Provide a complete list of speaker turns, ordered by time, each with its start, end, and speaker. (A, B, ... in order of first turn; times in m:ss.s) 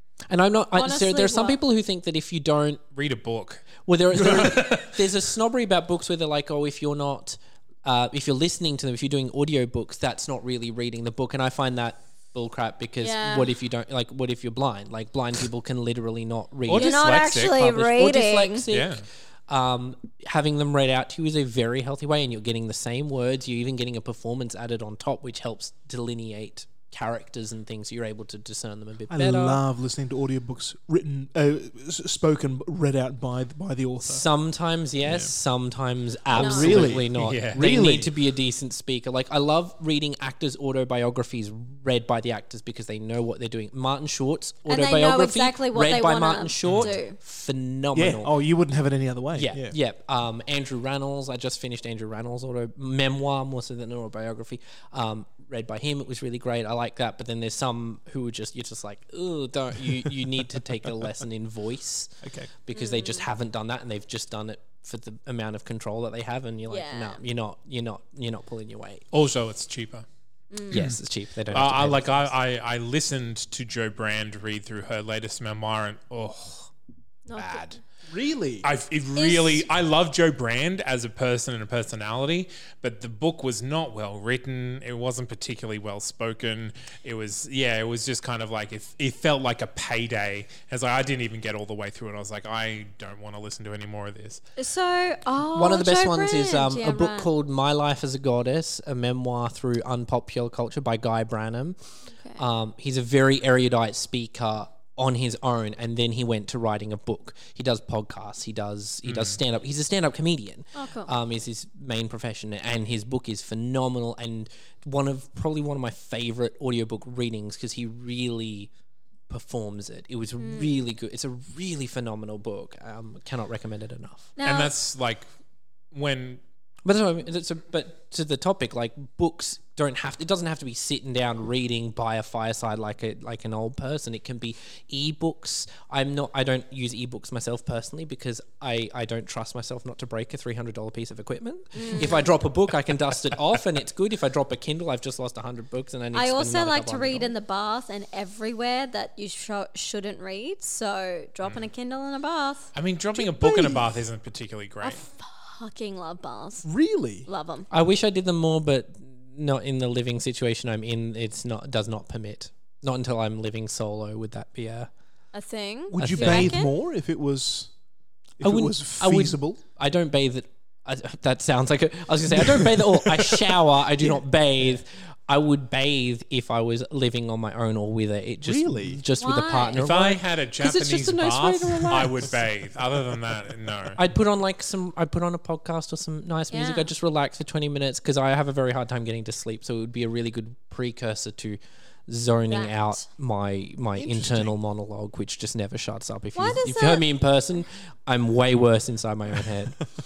0:00.3-0:02.8 A
0:00.7-0:01.6 B
0:02.9-0:04.9 C
0:03.8-0:29.6 A
0:04.3-0:04.6 D
0:13.0-0:13.5 B
0:16.7-0:17.7 C
0:16.7-0:18.7 B
0:18.7-0:19.0 C
0:29.1-0:34.3 D
0:34.0-0:48.4 A
0:35.0-0:35.3 D
0:36.3-0:38.1 D
0:36.4-0:36.9 B
0:37.1-0:37.6 C
0:44.7-0:47.2 B
0:46.6-0:46.9 C
0:47.9-0:49.8 D
0:49.4-1:09.0 A
1:02.2-1:02.5 D
1:02.7-1:03.3 B
1:06.7-1:07.2 B
1:09.1-1:10.1 C
1:10.5-1:10.8 B
1:10.7-1:11.0 C
1:10.7-1:12.3 A
1:11.5-1:16.7 C
1:17.3-1:17.8 B
1:17.4-1:17.8 C
1:18.1-1:18.7 D
1:18.6-1:34.4 C
1:19.2-1:19.7 B
1:34.6-1:37.3 B
1:35.5-1:41.8 A
1:42.4-1:58.7 A
1:49.0-1:49.4 C
1:50.8-1:51.1 B
1:59.3-2:04.3 A
2:00.4-2:00.7 B
2:04.4-2:04.7 B
2:04.4-2:05.3 C
2:05.9-2:06.4 C
2:06.8-2:27.3 A
2:21.7-2:22.4 B
2:26.1-2:32.7 B
2:32.8-2:35.0 C
2:33.2-2:33.9 D
2:34.8-2:36.7 B
2:36.6-2:37.3 D
2:37.3-2:37.7 B
2:37.7-2:44.9 A
2:45.3-2:46.7 B
2:45.9-2:47.7 D
2:46.0-2:46.6 A
2:48.4-2:49.6 D
2:48.4-3:02.3 A
2:52.3-2:54.2 D
2:58.4-2:59.0 D
2:59.2-2:59.8 B
2:59.8-3:04.0 C
3:04.0-3:19.8 A
3:06.5-3:06.9 B
3:12.5-3:13.0 B
3:14.0-3:14.5 D
3:16.4-3:17.0 B